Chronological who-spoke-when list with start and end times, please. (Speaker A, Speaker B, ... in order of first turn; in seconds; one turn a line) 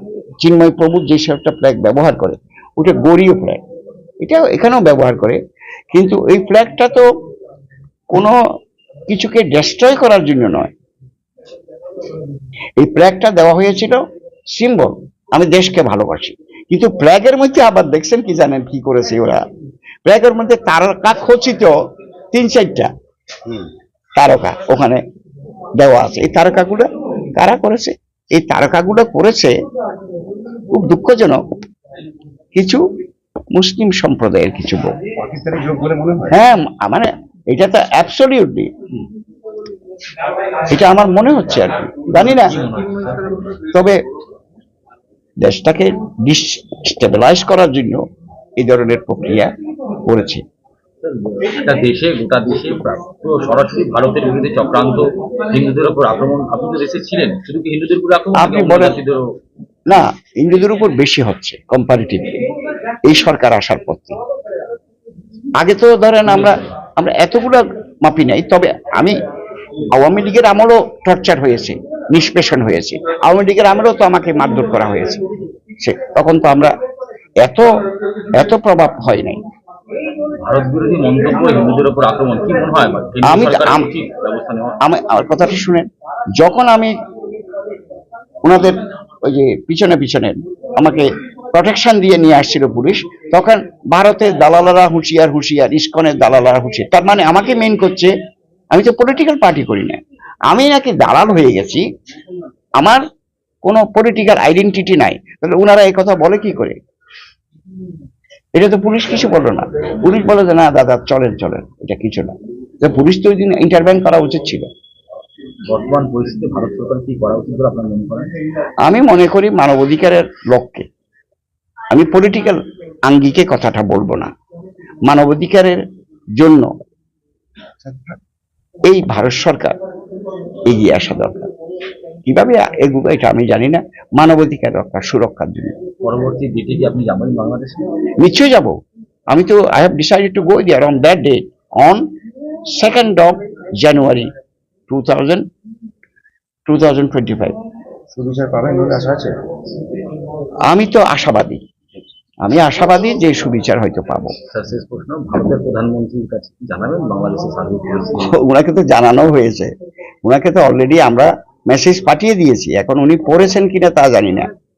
Speaker A: 0.4-3.6
Speaker A: 4.2-5.4
Speaker A: 5.9-7.0
Speaker A: 8.1-8.4
Speaker A: 9.1-10.7
Speaker A: 12.8-14.0
Speaker A: 14.5-19.4
Speaker A: 20.1-21.7
Speaker A: 22.3-22.9
Speaker A: 24.2-25.0
Speaker A: 25.8-29.5
Speaker A: 30.7-31.4
Speaker A: 32.5-32.8
Speaker A: 33.5-34.9
Speaker B: 35.3-36.3
Speaker A: 36.3-38.7
Speaker A: 40.7-42.5
Speaker C: 42.1-43.4
Speaker A: 43.7-44.0
Speaker A: 45.4-48.0
Speaker A: 48.6-49.5
Speaker A: 50.1-50.4
Speaker C: 51.0-59.2
Speaker A: 58.4-59.0
Speaker A: 59.9-62.4
Speaker A: 63.0-64.2
Speaker A: 65.6-69.1
Speaker A: 69.9-75.2
Speaker A: 75.8-76.7
Speaker A: 77.4-77.7
Speaker A: 78.4-79.4
Speaker C: 80.4-84.8
Speaker A: 83.2-83.9
Speaker A: 84.8-87.0
Speaker A: 88.4-98.1
Speaker A: 98.7-101.8
Speaker A: 103.6-106.8
Speaker A: 108.5-114.7
Speaker C: 115.7-118.3
Speaker A: 118.8-120.8
Speaker A: 121.9-124.3
Speaker A: 125.1-125.8
Speaker A: 126.4-126.7
Speaker A: 128.9-129.8
Speaker A: 130.7-131.5
Speaker A: 132.3-135.7
Speaker C: 136.0-137.9
Speaker A: 138.2-138.8
Speaker A: 139.3-142.0
Speaker A: 142.8-144.3
Speaker A: 144.9-145.4
Speaker A: 146.7-147.6
Speaker B: 148.2-149.3
Speaker A: 150.7-151.6
Speaker A: 152.4-154.3
Speaker C: 154.5-158.3
Speaker A: 158.2-159.7
Speaker A: 160.2-164.5